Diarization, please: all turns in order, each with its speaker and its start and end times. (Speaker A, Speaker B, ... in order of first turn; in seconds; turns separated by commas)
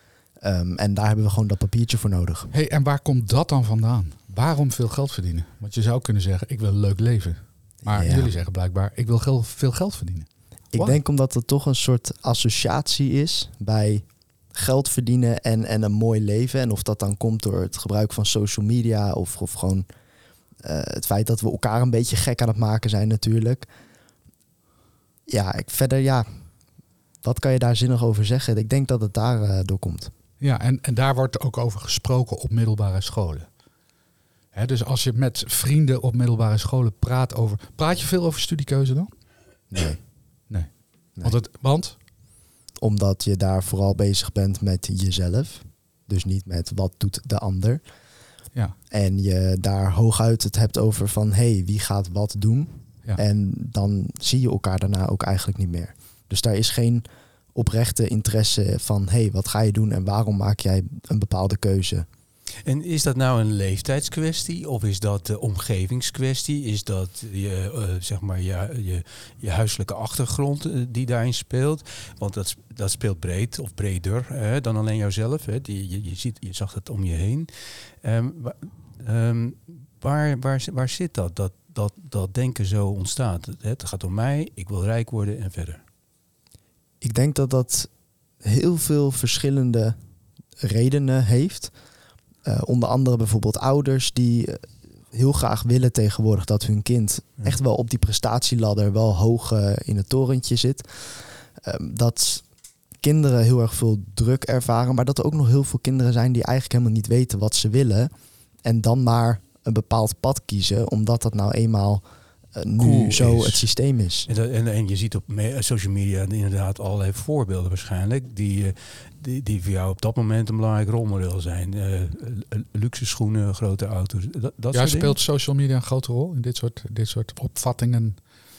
Speaker A: 0.4-2.5, Speaker B: 2.5-11.0, Speaker A: 7.8-8.3, Speaker A: 10.7-19.9, Speaker A: 20.6-23.7, Speaker A: 25.3-26.3, Speaker A: 27.2-30.1, Speaker B: 30.4-33.5, Speaker B: 34.5-39.1, Speaker A: 39.7-40.0, Speaker B: 40.5-42.0, Speaker A: 42.8-47.8, Speaker A: 48.9-62.1, Speaker C: 62.6-85.8, Speaker A: 87.0-87.9, Speaker A: 88.4-90.0, Speaker A: 90.6-91.7, Speaker A: 92.5-102.5, Speaker A: 103.0-108.1, Speaker A: 108.6-114.3, Speaker C: 112.8-113.7, Speaker C: 114.3-125.2, Speaker B: 124.7-128.2